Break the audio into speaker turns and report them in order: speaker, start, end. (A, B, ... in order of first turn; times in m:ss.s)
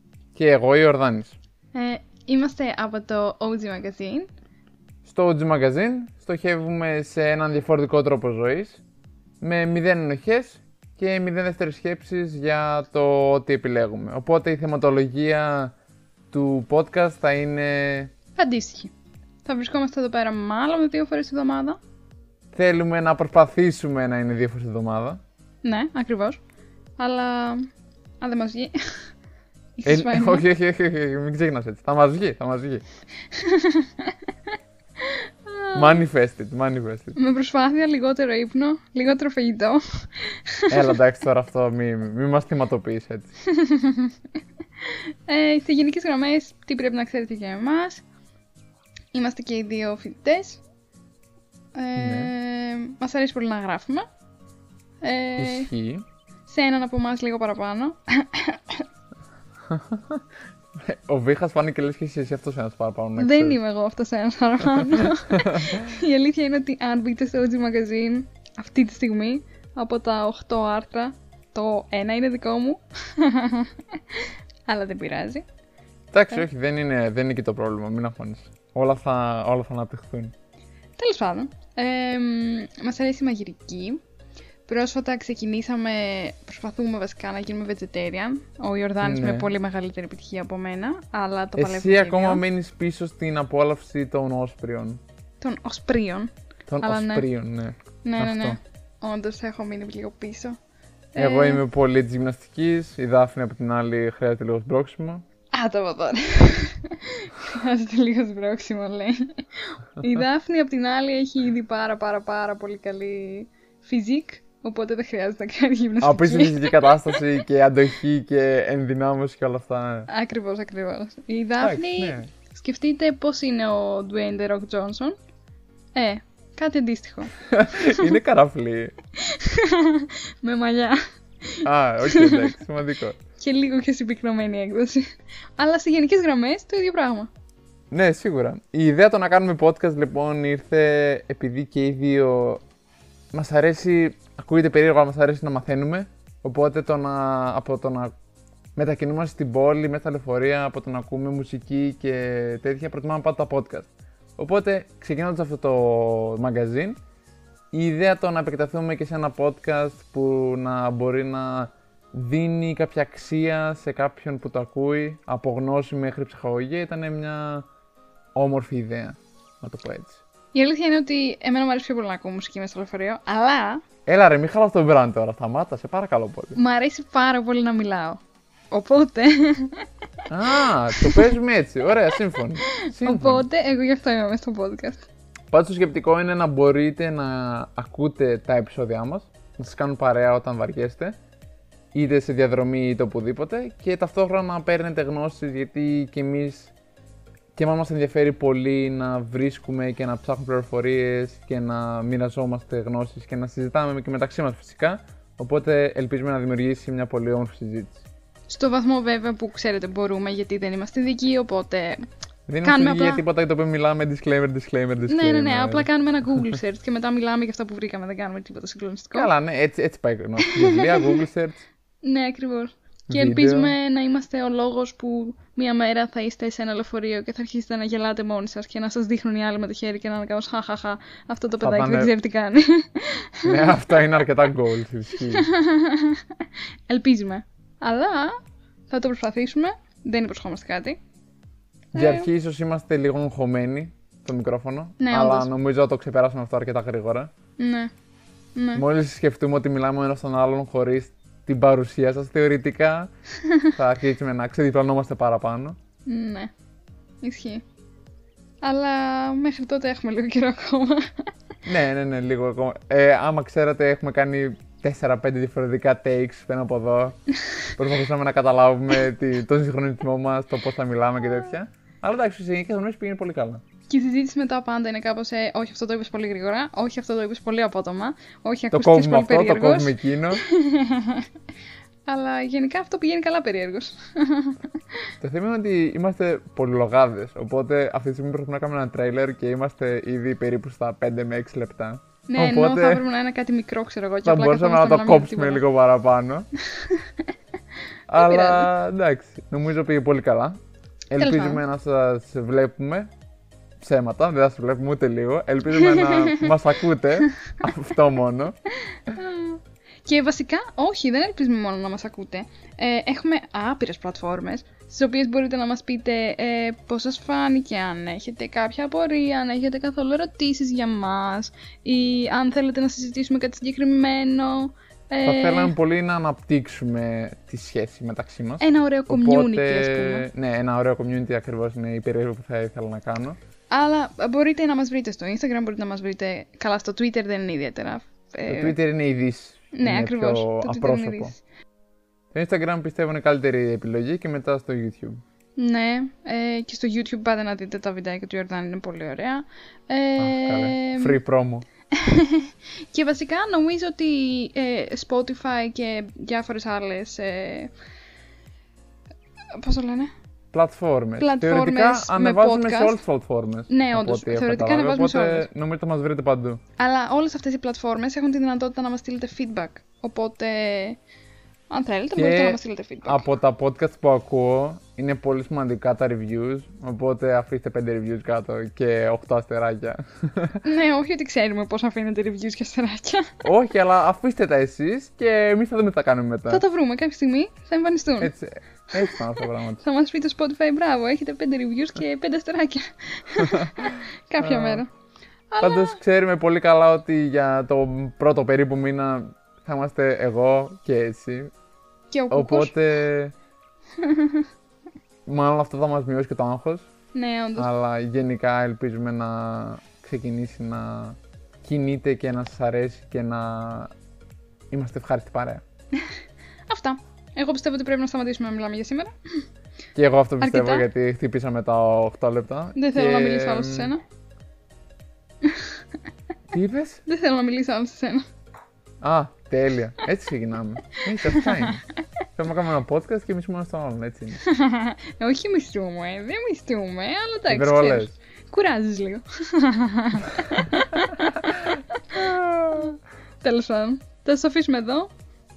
0:00.3-0:01.4 A
0:01.7-0:04.3 B
0:05.0-0:08.8 A
0:09.4-0:15.7 A
0:16.3-0:18.1 A
0:18.4-0:18.9 B
0:19.4-0:21.8 B
0:22.5-0:25.2 A
0:25.6-0:26.4 B
0:27.0-0:27.6 B
0:28.2-0:29.1 B
0:29.8-0:30.4 B
0:29.8-0:32.8 A
0:33.3-0:34.3 B
0:35.0-0:36.0 B
0:35.7-0:37.2 A
0:37.2-0:40.9 B
0:40.7-0:43.3 A
0:43.5-0:44.1 B
0:44.8-0:48.0 B
0:49.1-0:50.6 B
0:51.7-0:54.0 B
0:52.0-0:52.3 A
0:55.0-0:55.7 B
0:55.4-0:56.0 A
0:56.5-0:58.8 B
0:59.7-1:00.2 A
1:00.8-1:03.6 A
1:03.2-1:15.4 B
1:05.3-1:05.8 A
1:16.1-1:20.3 A
1:21.0-1:24.0 B
1:24.7-1:32.4 B
1:29.0-1:29.5 A
1:31.6-1:35.0 A
1:35.4-1:37.2 B
1:36.7-1:38.6 A
1:38.0-1:40.6 B
1:41.1-1:41.6 B
1:41.2-1:45.2 A
1:45.5-1:57.4 B
1:56.0-2:00.1 A
2:00.1-2:05.1 B
2:01.6-2:02.3 A
2:05.9-2:08.1 B
2:07.5-2:08.9 A
2:09.2-2:12.5 B
2:11.6-2:13.2 A
2:13.4-2:17.3 B
2:17.9-2:22.6 A
2:23.3-2:28.1 A
2:28.7-2:37.0 A
2:37.7-2:47.6 A
2:48.3-2:50.2 A
2:50.5-2:53.8 B
2:54.0-2:56.6 A
2:56.6-2:58.2 B
2:58.7-2:59.8 B
3:00.3-3:03.4 A
3:01.0-3:01.2 B
3:02.8-3:05.0 B
3:05.5-3:11.1 A
3:11.9-3:16.7 A
3:17.5-3:28.0 A
3:28.5-3:32.0 B
3:32.5-3:35.9 A
3:32.6-3:33.2 B
3:35.1-3:39.3 B
3:39.1-3:41.6 A
3:40.4-3:41.1 B
3:42.0-3:54.2 B
3:43.1-3:43.8 A
3:51.6-3:52.1 A
3:53.4-3:55.5 A
3:55.2-3:58.3 B
3:58.9-4:01.0 B
4:01.9-4:02.3 B
4:01.9-4:07.3 A
4:05.0-4:05.5 B
4:07.6-4:07.9 B
4:08.6-4:08.8 B
4:08.7-4:13.1 A
4:13.7-4:15.8 A
4:16.1-4:16.5 B
4:17.2-4:17.6 B
4:18.6-4:21.3 B
4:21.6-4:27.2 A
4:27.7-4:33.6 A
4:33.9-4:41.3 B
4:38.7-4:40.4 A
4:42.1-4:44.6 B
4:45.2-4:53.0 A
4:52.3-4:55.6 B
4:54.2-4:56.5 A
4:56.8-4:57.0 B
4:58.1-5:00.6 A
4:58.1-4:58.7 B
5:01.1-5:03.1 A
5:01.2-5:01.6 B
5:03.8-5:08.6 A
5:05.8-5:06.4 B
5:09.1-5:25.7 B
5:25.2-5:33.4 A
5:28.6-5:30.3 B
5:33.7-5:38.8 B
5:38.5-5:41.3 A
5:39.7-5:41.4 B
5:42.3-5:45.2 A
5:45.6-5:51.2 B
5:50.2-5:51.6 A
5:51.9-5:57.7 B
5:59.6-6:00.1 B
6:00.5-6:06.6 A
6:01.2-6:03.0 B
6:03.7-6:05.5 B
6:06.8-6:11.0 B
6:11.7-6:13.2 B
6:12.1-6:20.6 A
6:20.6-6:23.3 B
6:23.4-6:26.6 A
6:26.5-6:28.3 B
6:28.2-6:29.8 A
6:29.0-6:34.9 B
6:33.4-6:34.8 A
6:35.5-6:36.0 B
6:35.6-6:41.5 A
6:42.1-6:42.7 B
6:42.3-6:43.3 A
6:44.0-6:44.4 B
6:45.2-6:46.9 A
6:47.1-6:47.7 B
6:47.6-6:53.9 A
6:54.7-6:55.6 A
6:56.7-6:59.1 B
7:00.0-7:03.9 A
7:00.4-7:00.9 B
7:02.8-7:04.0 B
7:05.4-7:05.8 B
7:06.5-7:07.0 A
7:07.0-7:08.2 B
7:09.0-7:11.8 A
7:11.2-7:11.8 B
7:12.4-7:14.4 A
7:14.4-7:22.0 B
7:17.5-7:18.1 A
7:22.1-7:22.9 A
7:22.7-7:25.1 B